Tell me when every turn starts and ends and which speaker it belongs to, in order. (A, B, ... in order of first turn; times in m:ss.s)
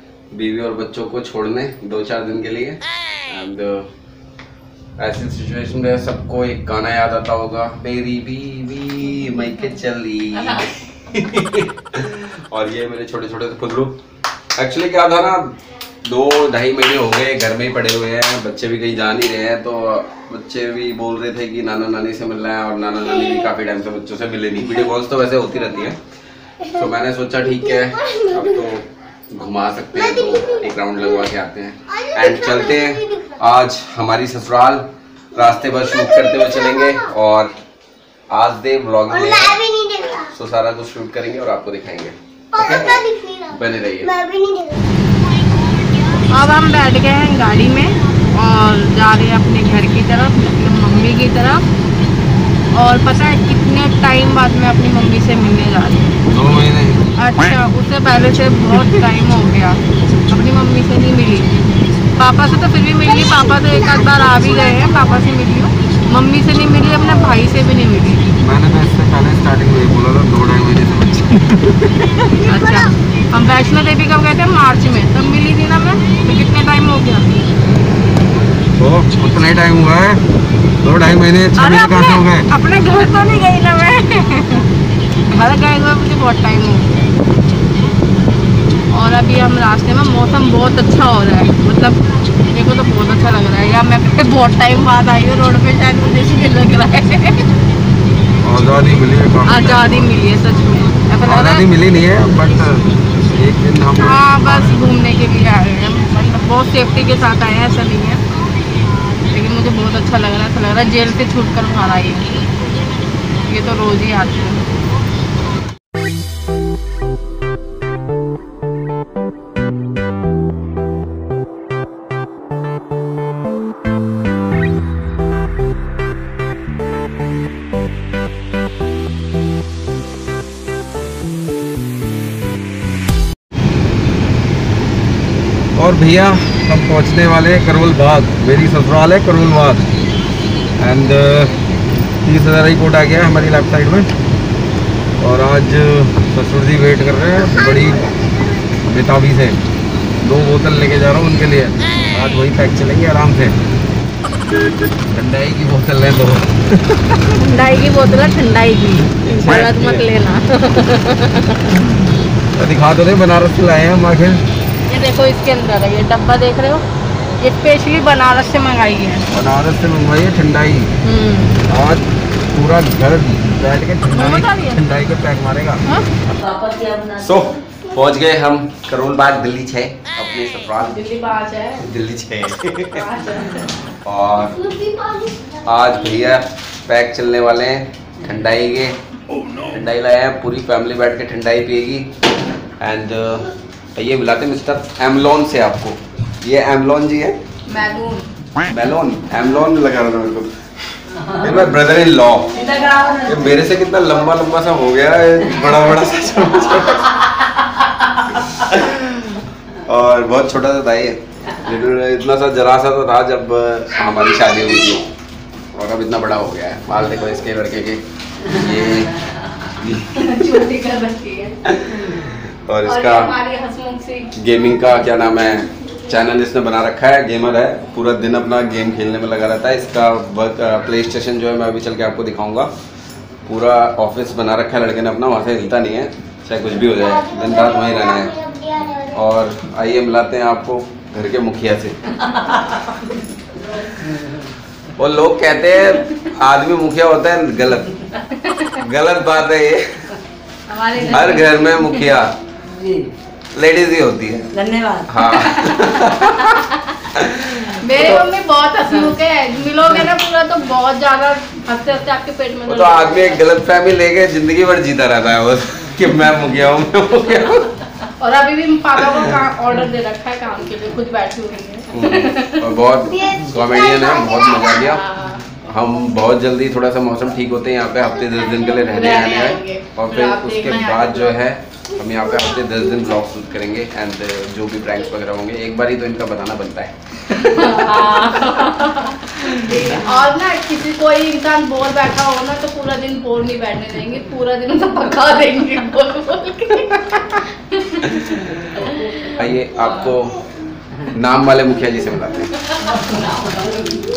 0:00.3-0:03.9 A
0:05.0-0:14.0 A
0:14.6-0:26.0 A
0:26.6-0:37.5 A
0:38.3-0:39.6 A
0:39.3-0:40.3 B
0:40.2-0:43.0 A
0:42.6-0:44.9 B
0:43.5-0:44.1 A
0:46.3-0:51.6 C
0:52.7-0:56.2 C
0:56.3-0:57.1 A
0:57.2-1:01.5 C
1:02.2-1:08.3 C
1:08.4-1:12.3 A
1:12.4-1:17.3 C
1:18.8-1:20.2 A
1:20.8-1:22.5 A
1:21.6-1:24.7 C
1:25.3-1:27.0 C
1:28.9-1:37.5 C
1:38.4-1:40.1 A
1:39.5-1:41.7 C
1:41.3-1:44.9 A
1:44.0-1:48.2 C
1:49.2-1:52.3 C
1:53.4-1:54.7 C
2:15.8-2:19.8 A
2:20.8-2:21.6 A
2:22.2-2:24.1 A
2:25.2-2:28.2 A
2:28.8-2:29.6 A
2:30.2-2:33.6 A
2:35.1-2:37.2 A
2:37.3-2:41.8 C
2:39.2-2:40.1 A
2:42.6-2:44.4 A
2:44.9-2:46.8 C
2:47.4-2:49.2 C
2:49.3-2:50.9 A
2:51.0-2:51.6 C
2:51.7-2:55.8 A
2:54.1-2:54.8 C
2:56.3-2:57.3 B
2:57.2-3:01.1 A
3:00.8-3:01.8 C
3:01.8-3:03.1 A
3:02.9-3:03.7 C
3:04.0-3:04.7 A
3:04.7-3:05.6 B
3:05.6-3:12.1 A
3:12.8-3:17.4 A
3:17.7-3:18.2 C
3:18.6-3:20.5 A
3:21.2-3:21.5 B
3:21.4-3:22.6 A
3:22.5-3:23.5 B
3:23.2-3:27.3 A
3:28.3-3:35.0 A
3:35.7-3:40.6 A
3:40.1-3:41.6 C
3:41.7-3:43.3 A
3:42.8-3:44.3 C
3:44.4-3:52.7 A
3:53.4-3:58.4 A
3:57.4-3:59.2 B
3:59.1-4:02.0 A
4:05.0-4:07.9 A
4:08.3-4:08.8 C
4:08.8-4:10.2 A
4:10.7-4:11.9 C
4:11.0-4:12.3 A
4:12.6-4:13.1 B
4:13.5-4:14.5 A
4:14.5-4:15.2 B
4:15.1-4:17.8 A
4:15.2-4:17.0 C
4:17.7-4:23.4 C
4:22.7-4:27.8 A
4:28.2-4:32.7 C
4:29.0-4:29.3 A
4:31.9-4:35.0 A
4:33.6-4:34.4 B
4:34.6-4:35.5 C
4:35.6-4:46.9 A
4:38.4-4:41.4 C
4:47.3-4:59.2 C
4:58.2-4:58.5 A
4:59.3-5:00.4 A
5:01.1-5:02.5 A
5:03.2-5:03.7 B